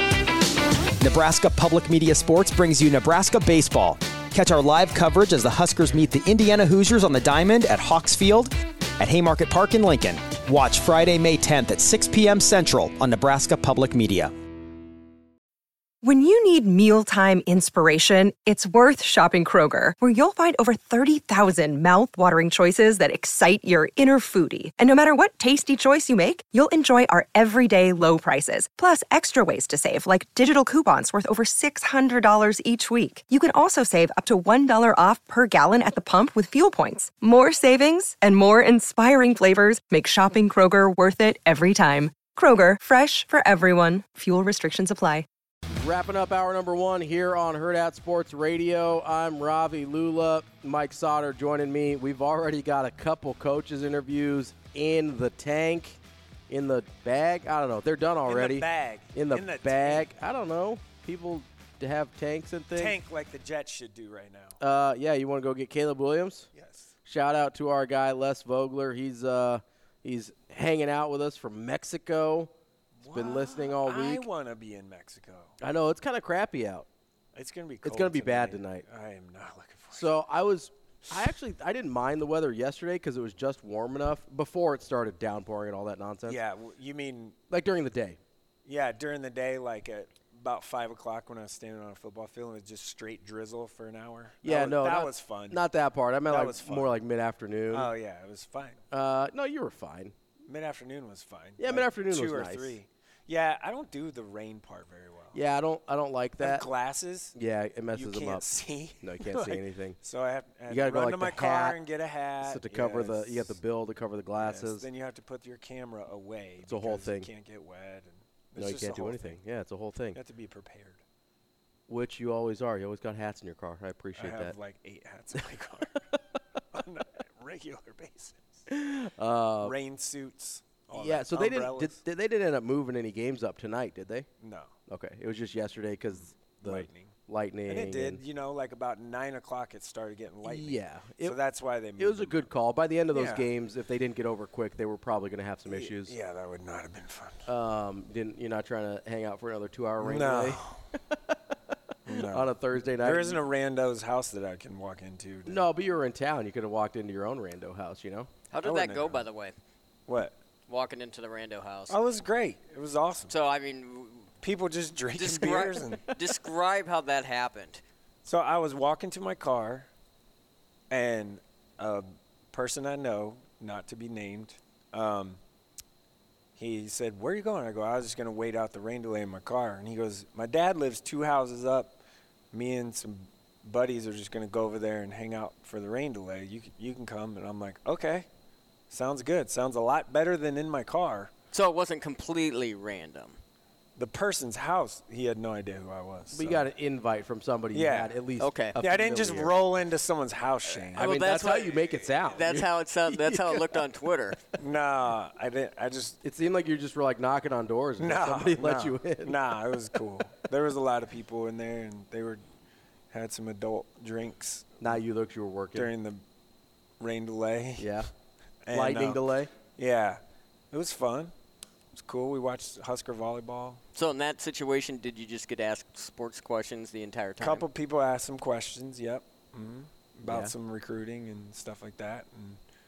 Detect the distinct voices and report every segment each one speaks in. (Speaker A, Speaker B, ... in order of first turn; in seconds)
Speaker A: 1.0-14.3
Speaker B: 16.0-45.2
Speaker C: 45.7-63.0, 64.6-66.5, 67.0-72.5, 73.1-74.2, 75.6-76.9, 77.8-78.8, 79.9-86.4, 87.5-88.2, 94.4-97.9, 98.9-100.1, 101.6-102.8, 105.3-106.7, 107.3-108.4, 109.0-110.0, 110.7-111.8, 112.4-114.8, 116.7-117.3, 118.6-120.2, 121.9-124.5, 128.7-129.7, 130.9-134.3, 134.9-138.2, 140.4-141.4, 142.0-146.1, 147.5-150.6, 152.1-153.4, 155.5-158.3, 196.3-199.5, 200.9-203.8, 206.2-209.3, 214.8-215.9, 217.8-218.1, 218.7-219.5, 230.3-230.5
Speaker D: 58.3-60.1, 62.8-64.6, 66.5-66.9, 73.0-75.5, 77.3-80.1, 86.3-87.4, 88.6-95.6, 96.3-97.0, 97.7-98.8, 100.5-105.4, 106.4-107.3, 108.0-113.6, 114.4-119.4, 120.1-121.0, 124.2-126.0, 126.7-128.5, 129.6-132.0, 134.4-134.7, 136.3-137.2, 137.7-142.4, 143.1-143.5, 145.7-147.5, 150.0-150.8, 152.1-155.6, 158.6-159.2, 160.1-160.4, 161.9-163.3, 164.4-166.2, 168.2-169.9, 170.9-175.4, 176.6-182.0, 182.5-188.3, 188.9-191.3, 194.0-196.7, 197.7-198.1, 198.8-201.1, 204.5-206.2, 208.0-212.4, 213.1-214.7, 215.7-216.2, 217.0-217.9, 218.7-219.2, 219.7-221.3, 221.9-223.8, 227.4-232.6
Speaker E: 158.5-159.6, 160.7-161.9, 163.3-164.3, 165.2-167.8, 191.5-193.4, 198.4-198.8, 200.9-204.5, 223.9-227.7